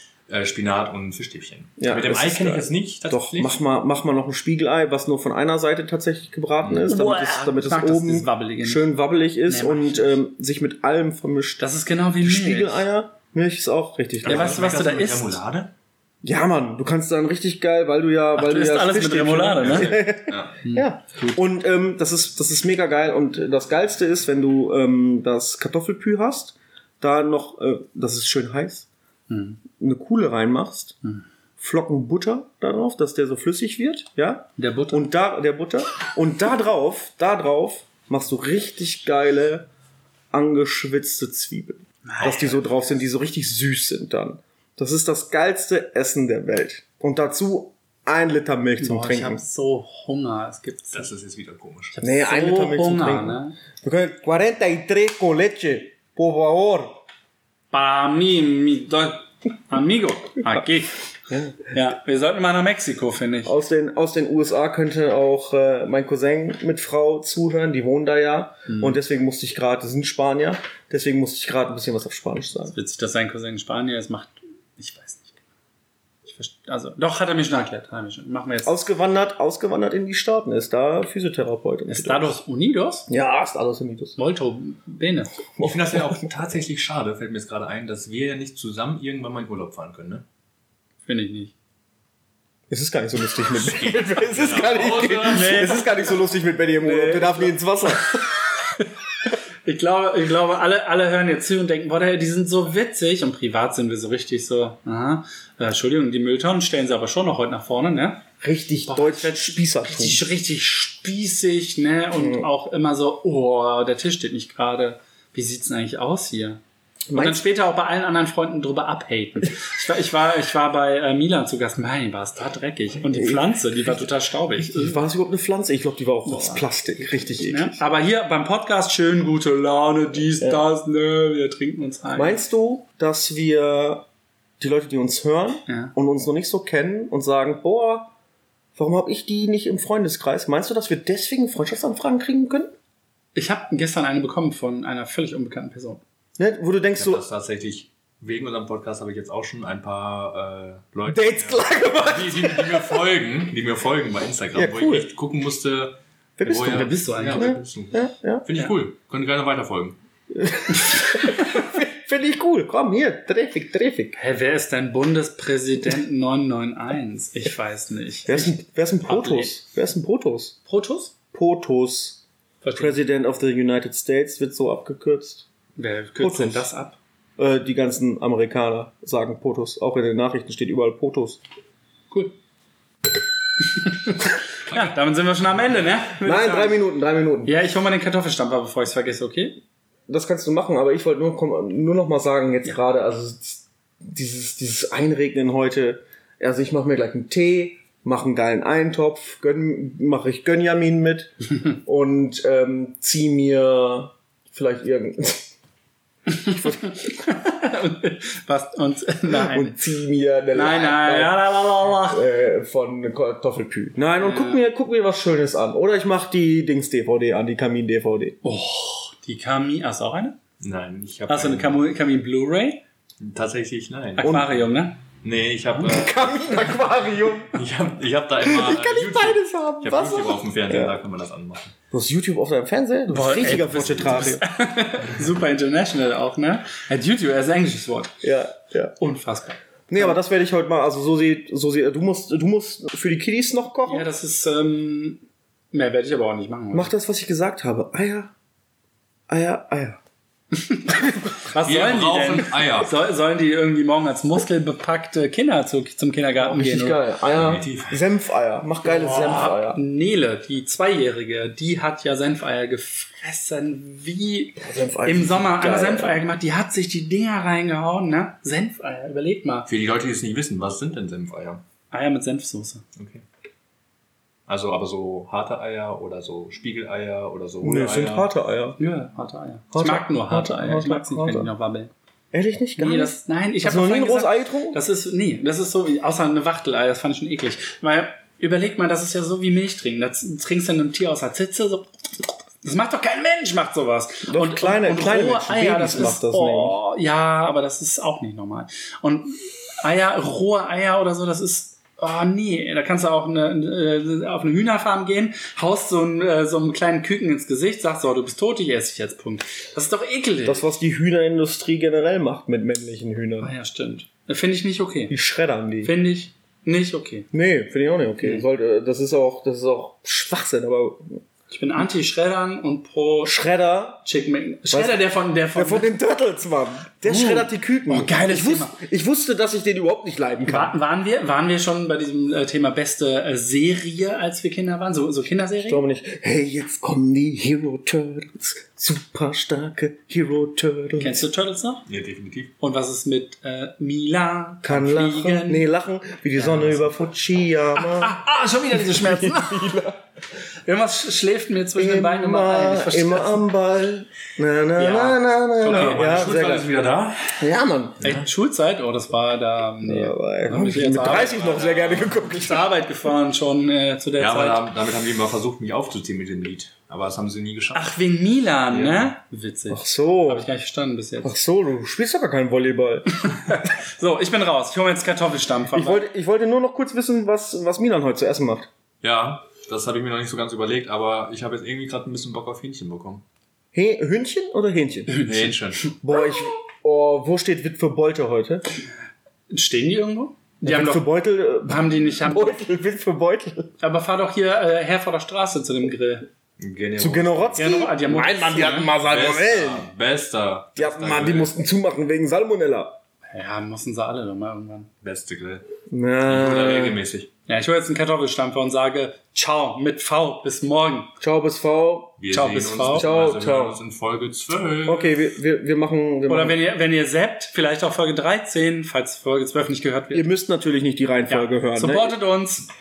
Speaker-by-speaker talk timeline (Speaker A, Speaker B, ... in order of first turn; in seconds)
Speaker A: 0.3-3.6, 6.6-6.9, 14.2-15.7, 19.6-20.6, 50.9-52.0, 85.6-90.2, 93.6-95.9, 147.0-160.0, 184.7-184.9, 220.6-221.8, 223.2-224.4, 225.2-226.7, 227.5-231.8, 233.6-234.2, 251.6-252.9, 257.3-258.0, 269.7-271.6, 273.0-273.2, 274.5-278.3, 341.9-342.5, 355.7-357.4, 361.0-362.2, 364.2-367.9, 368.7-369.1, 379.0-383.2, 385.2-385.9, 396.6-397.7, 399.0-401.5, 405.0-405.6, 406.3-407.3, 412.2-415.2
Speaker B: 1.8-11.6, 12.2-14.6, 16.2-28.9, 29.8-31.0, 31.6-39.7, 40.3-49.4, 52.0-57.0, 61.3-61.6, 63.4-72.8, 78.7-82.4, 83.1-84.2, 92.7-98.2, 108.4-110.2, 112.2-112.5, 117.1-117.4, 123.0-123.5, 124.6-127.8, 130.4-130.6, 132.2-134.1, 134.6-138.1, 138.8-142.7, 146.4-147.2, 151.1-153.0, 154.5-155.1, 156.4-158.5, 160.3-164.2, 168.3-170.6, 171.3-172.2, 172.8-175.5, 176.2-176.7, 177.4-181.4, 186.2-187.5, 190.1-205.5, 206.4-206.8, 209.4-218.4, 224.2-224.5, 225.8-227.6, 228.4-231.0, 231.9-234.5, 238.2-239.0, 239.9-244.1, 246.7-248.3, 249.3-250.0, 256.4-259.8, 264.6-266.2, 277.6-278.8, 279.7-281.5, 282.3-284.8, 294.3-296.8, 310.4-313.5, 315.1-315.9, 317.3-321.2, 323.2-324.0, 324.7-330.7, 335.6-341.2, 344.6-348.2, 348.7-350.0, 351.8-356.7, 357.4-358.0, 359.8-362.7, 369.7-370.5, 371.2-373.1, 375.7-378.7, 383.7-385.1, 386.0-388.6, 390.6-393.7, 397.0-399.9, 400.8-403.0, 405.9-407.0, 411.2-412.2, 412.9-413.8, 414.9-416.6, 420.1-422.2
Speaker C: 6.9-8.9, 9.5-10.2, 11.6-12.8, 14.2-15.4, 18.4-20.0, 20.6-21.4, 29.3-29.6, 34.6-35.1, 42.1-42.6, 48.8-51.1, 51.9-53.6, 57.7-61.0, 61.7-63.6, 68.7-69.0, 72.7-75.4, 76.2-78.8, 81.9-83.1, 84.2-85.5, 91.1-91.5, 95.3-96.0, 96.8-98.8, 99.7-108.2, 108.9-116.6, 117.1-125.0, 126.3-132.4, 135.7-135.9, 143.3-146.0, 156.5-157.6, 164.2-169.6, 170.7-171.1, 172.6-173.0, 175.8-177.0, 183.7-186.8, 187.4-189.6, 206.3-209.8, 210.5-212.2, 214.2-214.6, 218.4-220.4, 221.3-222.8, 224.2-225.0, 233.1-238.1, 239.0-240.2, 243.9-246.9, 250.5-257.0, 258.8-269.7, 271.9-272.8, 278.8-281.9, 282.8-310.6, 313.4-315.2, 315.8-317.3, 321.5-323.4, 324.0-325.9, 327.1-328.8, 330.4-335.8, 341.0-341.8, 342.6-345.6, 346.4-346.8, 347.8-349.8, 350.7-353.4, 354.8-356.1, 358.0-361.4, 362.1-364.6, 367.7-371.4, 373.3-376.0, 385.1-385.5, 389.5-391.1, 391.7-392.6, 393.8-396.3, 397.6-398.9, 403.3-404.9, 407.5-411.1, 412.3-413.1, 416.3-420.3, 421.3-422.7